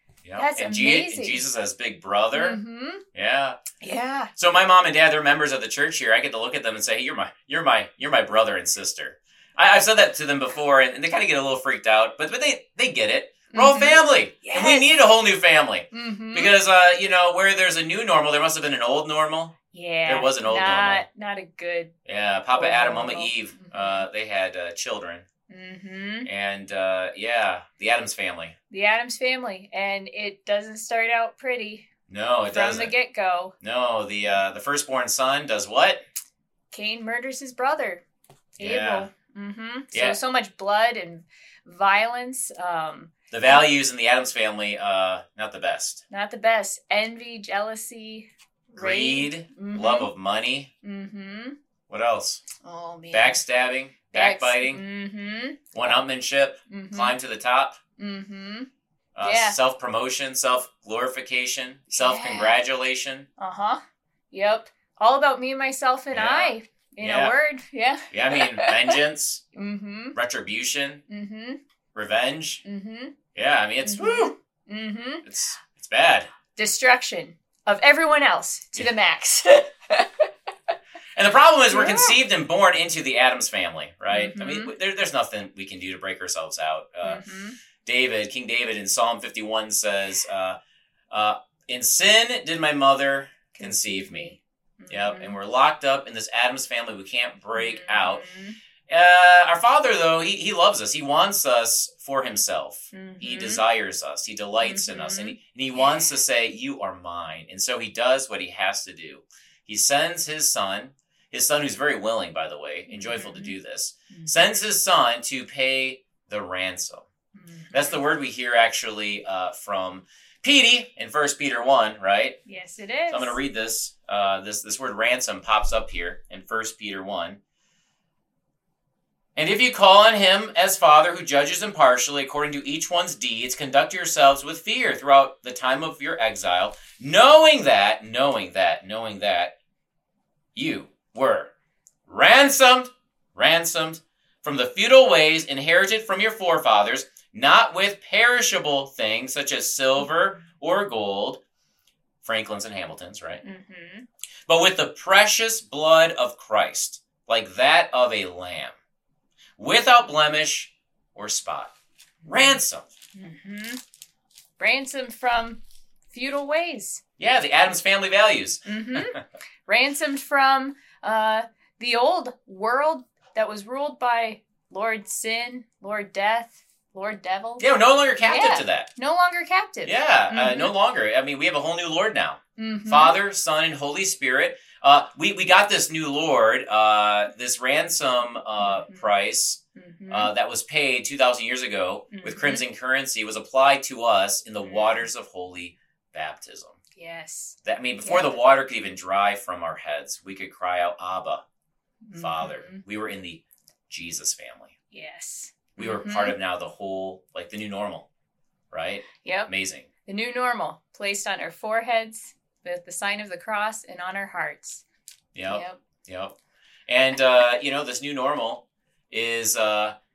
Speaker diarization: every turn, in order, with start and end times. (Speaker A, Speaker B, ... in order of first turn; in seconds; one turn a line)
Speaker A: 0.2-2.6
Speaker B: 0.3-1.4
Speaker B: 2.3-3.0
Speaker A: 3.1-3.6
Speaker B: 3.8-4.3
Speaker A: 4.4-21.0
Speaker B: 13.5-14.9
Speaker B: 15.9-16.5
Speaker B: 19.7-21.9
Speaker A: 22.1-25.2
Speaker B: 22.5-24.1
Speaker B: 25.5-26.3
Speaker A: 26.2-28.5
Speaker B: 28.7-31.9
Speaker A: 32.1-32.9
Speaker B: 32.5-33.5
Speaker A: 33.6-36.0
Speaker B: 36.7-38.0
Speaker B: 38.6-43.6
Speaker A: 38.6-39.1
Speaker A: 39.9-40.2
Speaker A: 43.3-46.0
Speaker B: 46.1-50.1
Speaker A: 48.8-50.7
Speaker B: 50.8-51.6
Speaker A: 51.9-52.4
Speaker B: 52.6-53.4
Speaker A: 53.1-54.8
Speaker B: 54.1-56.0
Speaker A: 55.7-57.8
Speaker B: 56.7-57.2
Speaker B: 58.0-58.7
Speaker A: 59.1-63.3
Speaker B: 59.2-59.6
Speaker B: 61.9-62.6
Speaker B: 63.4-63.8
Speaker B: 64.3-69.0
Speaker A: 66.1-67.3
Speaker A: 68.1-69.4
Speaker B: 69.5-70.2
Speaker A: 70.2-71.0
Speaker B: 71.1-71.6
Speaker A: 71.9-72.6
Speaker B: 72.7-73.2
Speaker A: 73.3-74.3
Speaker B: 73.8-75.2
Speaker A: 75.2-76.3
Speaker B: 76.6-80.2
Speaker A: 81.2-87.2
Speaker B: 81.7-82.2
Speaker B: 84.1-84.7
Speaker B: 87.0-87.6
Speaker A: 87.8-90.6
Speaker A: 91.1-94.3
Speaker B: 93.5-95.4
Speaker A: 94.9-98.2
Speaker B: 97.5-98.6
Speaker A: 98.9-117.1
Speaker B: 102.9-103.6
Speaker B: 104.6-106.2
Speaker B: 112.9-113.5
Speaker B: 114.1-114.6
Speaker B: 117.3-118.0
Speaker A: 117.7-122.4
Speaker B: 122.5-123.4
Speaker A: 123.1-127.4
Speaker A: 129.3-139.5
Speaker A: 140.5-141.5
Speaker A: 142.1-151.4
Speaker A: 152.2-153.4
Speaker B: 153.4-154.1
Speaker A: 154.5-158.8
Speaker A: 159.6-161.7
Speaker B: 162.2-162.6
Speaker A: 162.2-162.9
Speaker B: 163.2-163.8
Speaker B: 164.6-167.0
Speaker A: 167.2-169.2
Speaker B: 168.7-177.7
Speaker A: 177.6-178.9
Speaker B: 178.3-180.7
Speaker A: 179.8-196.8
Speaker B: 182.6-183.2
Speaker B: 188.6-189.1
Speaker B: 189.8-190.3
Speaker B: 192.1-192.6
Speaker B: 194.6-195.1
Speaker B: 197.0-198.4
Speaker A: 197.7-201.4
Speaker B: 202.1-202.8
Speaker A: 202.2-204.7
Speaker B: 204.9-206.3
Speaker A: 205.8-208.1
Speaker A: 208.7-209.9
Speaker B: 209.2-209.5
Speaker B: 210.1-214.8
Speaker A: 215.3-216.3
Speaker B: 215.5-215.8
Speaker A: 216.9-219.9